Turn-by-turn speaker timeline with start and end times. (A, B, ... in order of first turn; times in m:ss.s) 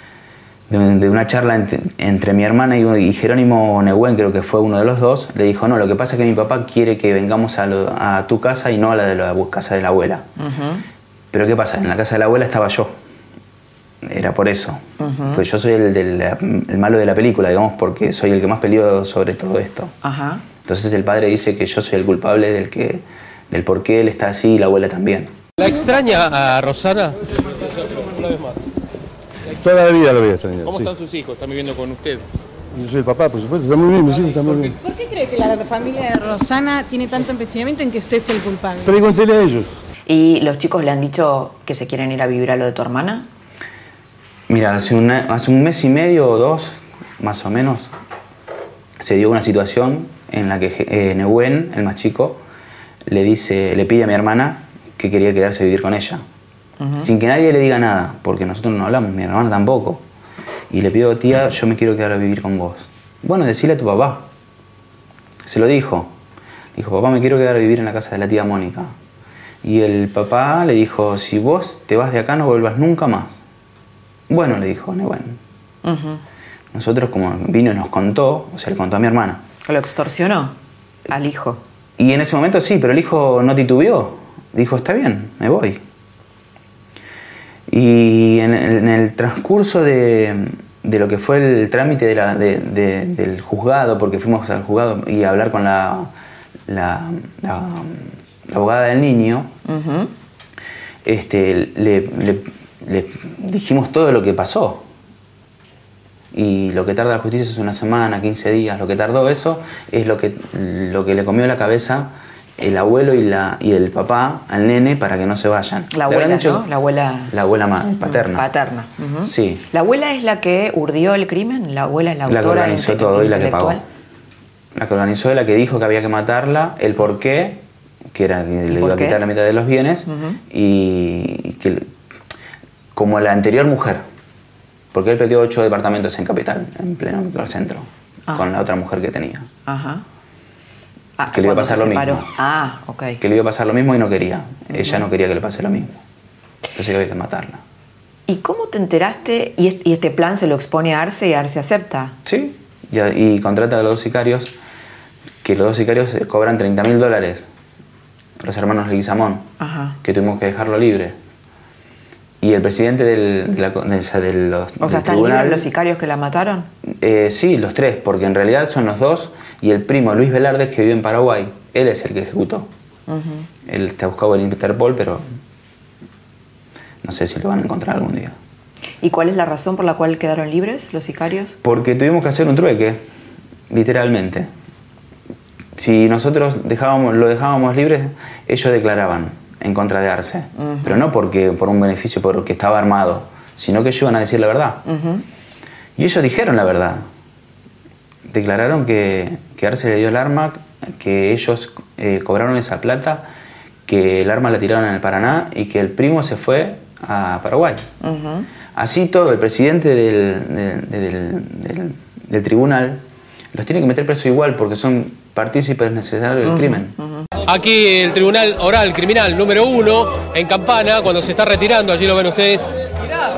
0:00.7-0:10.3 A
0:10.4-0:10.8 B
0:11.3-0:13.0 A
0:14.0-0:19.9 A
0:15.0-0:15.4 B
0:20.0-0:20.4 B
0:20.6-0:25.3 A
0:25.6-0:27.2 C
0:29.6-0:31.1 D
0:32.7-0:34.8 D
0:34.8-0:38.9 E
0:38.8-0:39.7 D
0:40.1-0:43.3 B
0:44.5-0:47.9 A
0:49.0-0:52.4 A
0:53.1-0:56.2 A
0:56.8-0:57.1 B
0:57.0-1:00.0 A
1:00.7-1:04.2 A
1:05.4-1:06.1 A
1:06.7-1:08.9 A
1:09.6-1:13.4 A
1:14.3-1:15.4 A
1:15.8-1:16.2 B
1:16.7-1:19.4 A
1:19.6-1:20.6 B
1:21.1-1:21.6 B
1:22.0-1:25.8 A
1:27.7-1:36.1 A
1:36.7-1:39.5 A
1:39.6-1:40.1 B
1:41.0-1:44.9 A
1:46.3-1:56.7 A
1:55.9-1:57.3 B
1:57.3-1:58.5 A
1:58.0-2:03.8 B
1:59.2-1:59.6 A
2:02.3-2:03.8 A
2:04.7-2:11.9 A
2:08.7-2:09.2 B
2:10.0-2:10.4 B
2:12.9-2:14.0 A
2:14.9-2:19.5 A
2:19.7-2:20.0 B
2:21.2-2:23.2 B
2:21.3-2:22.3 A
2:23.2-2:26.0 A
2:24.8-2:25.0 B
2:26.7-2:27.6 A
2:28.3-2:32.1 B
2:32.2-2:34.5 A
2:35.4-2:37.5 A
2:38.4-2:39.5 A
2:39.6-2:40.0 B
2:40.0-2:41.2 A
2:42.4-2:45.7 A
2:44.8-2:46.7 B
2:46.9-2:52.7 A
2:53.1-2:53.5 B
2:53.6-2:55.2 A
2:57.0-2:58.4 A
2:59.0-3:01.6 B
3:01.6-3:03.0 A
3:03.7-3:04.5 A
3:05.8-3:14.8 A
3:10.6-3:11.0 B
3:14.8-3:15.2 B
3:16.0-3:17.0 A
3:18.3-3:23.3 A
3:23.8-3:27.9 A
3:28.0-3:28.5 B
3:28.7-3:36.9 A
3:36.4-3:37.2 B
3:37.5-3:42.7 C